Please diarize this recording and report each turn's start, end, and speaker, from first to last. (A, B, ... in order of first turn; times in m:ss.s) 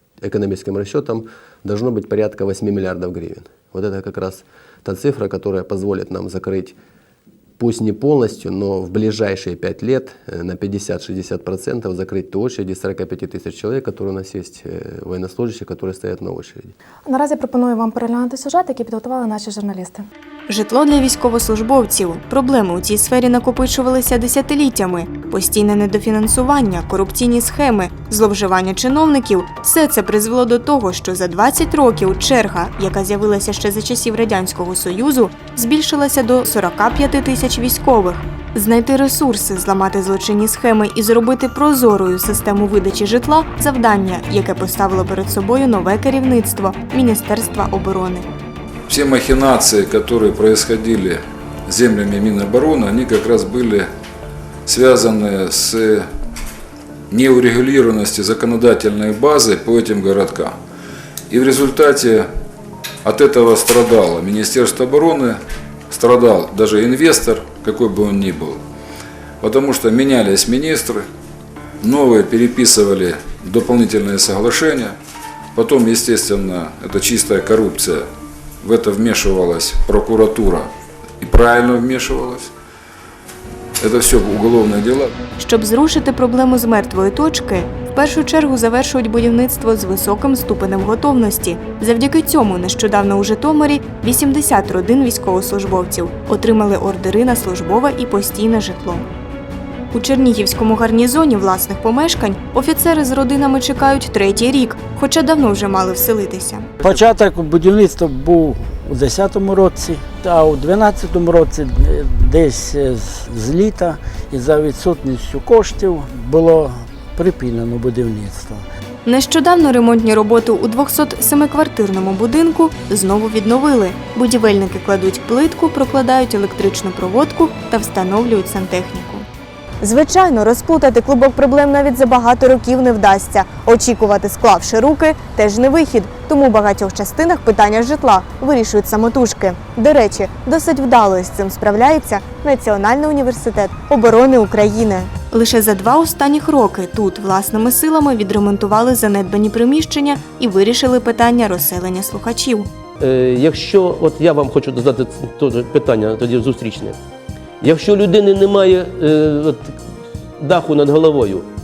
0:00.2-0:06.8 A
0:07.6-0:16.7 A
0:17.1-0:20.0 B
0:20.5-0:48.2 C
0:48.9-0:53.9 D
0:54.7-0:56.1 D
0:57.1-1:00.6 D
1:01.3-1:02.3 D
1:03.0-1:05.4 D
1:05.9-1:08.6 D
1:09.4-1:11.0 D
1:11.8-1:15.0 D
1:15.5-1:18.1 D
1:18.6-1:20.7 D
1:21.2-1:22.5 D
1:23.8-1:25.1 D
1:25.4-1:39.0 C
1:39.9-1:46.7 C
1:46.8-1:58.6 E
1:59.0-2:09.2 C
2:09.8-2:32.7 C
2:33.0-2:37.0 F
2:37.6-2:39.8 F
2:40.4-2:41.5 F